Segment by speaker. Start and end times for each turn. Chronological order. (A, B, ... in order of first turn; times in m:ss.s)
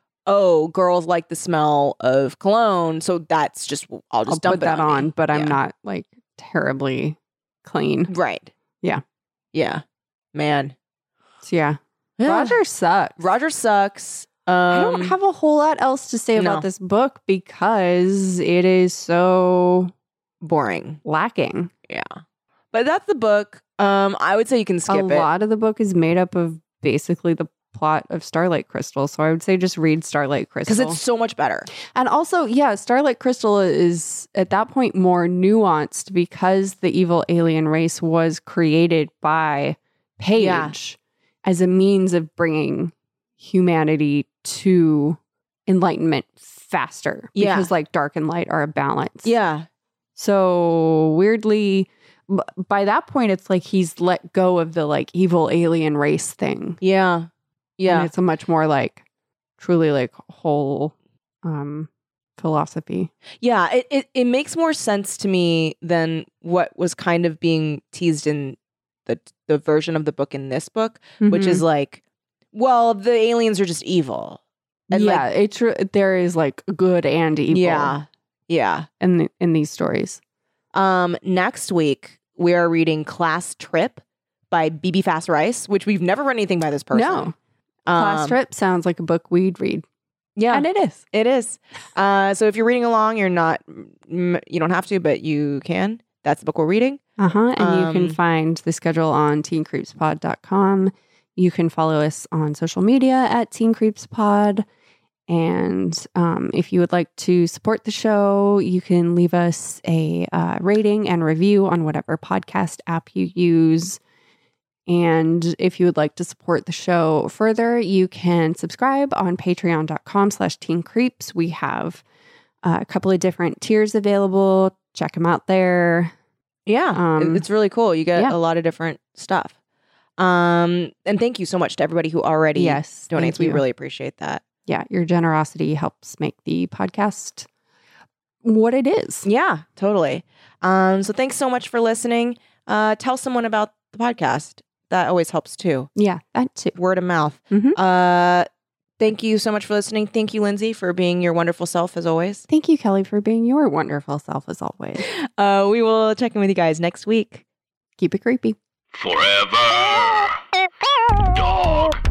0:00.2-0:05.6 A
0:04.3-0:08.1 B
0:08.1-0:08.5 A
0:09.5-0:09.8 A
0:10.3-0:10.7 A
0:11.4-0:13.1 B
0:12.2-0:12.6 A
0:13.2-0:15.1 A
0:14.7-0:19.9 B
0:16.4-0:16.7 A
0:20.4-0:21.0 A
0:21.0-0:21.7 B
0:21.9-0:22.2 A
0:22.7-0:25.3 A
0:24.9-0:31.0 B
0:30.7-0:31.7 A
0:31.9-0:49.3 B
0:40.4-0:40.7 A
0:47.3-0:47.7 A
0:49.2-0:49.7 A
0:50.2-0:56.8 B
0:56.8-0:58.1 A
0:57.9-0:59.0 B
0:59.6-1:03.1 B
1:03.4-1:12.0 A
1:11.2-1:11.6 B
1:12.5-1:15.2 A
1:14.9-1:17.9 B
1:17.5-1:18.9 A
1:19.0-1:20.2 B
1:20.7-1:27.3 A
1:26.9-1:27.3 B
1:27.8-1:28.4 A
1:27.9-1:29.8 B
1:30.4-1:37.0 A
1:30.5-1:31.0 B
1:37.2-1:44.6 B
1:37.6-1:38.2 A
1:45.3-1:54.0 B
1:54.9-2:02.0 B
2:02.6-2:06.1 B
2:06.6-2:09.5 A
2:06.9-2:07.4 B
2:10.2-2:14.4 A
2:12.5-2:13.6 B
2:14.7-2:17.5 B
2:18.4-2:19.3 B
2:19.2-2:25.9 A
2:26.0-2:26.8 B
2:26.8-2:28.5 A
2:27.5-2:27.8 B
2:29.0-2:32.4 A
2:32.5-2:35.0 B
2:35.0-2:37.4 A
2:38.0-2:38.6 B
2:38.9-2:40.3 C
2:41.3-2:42.0 C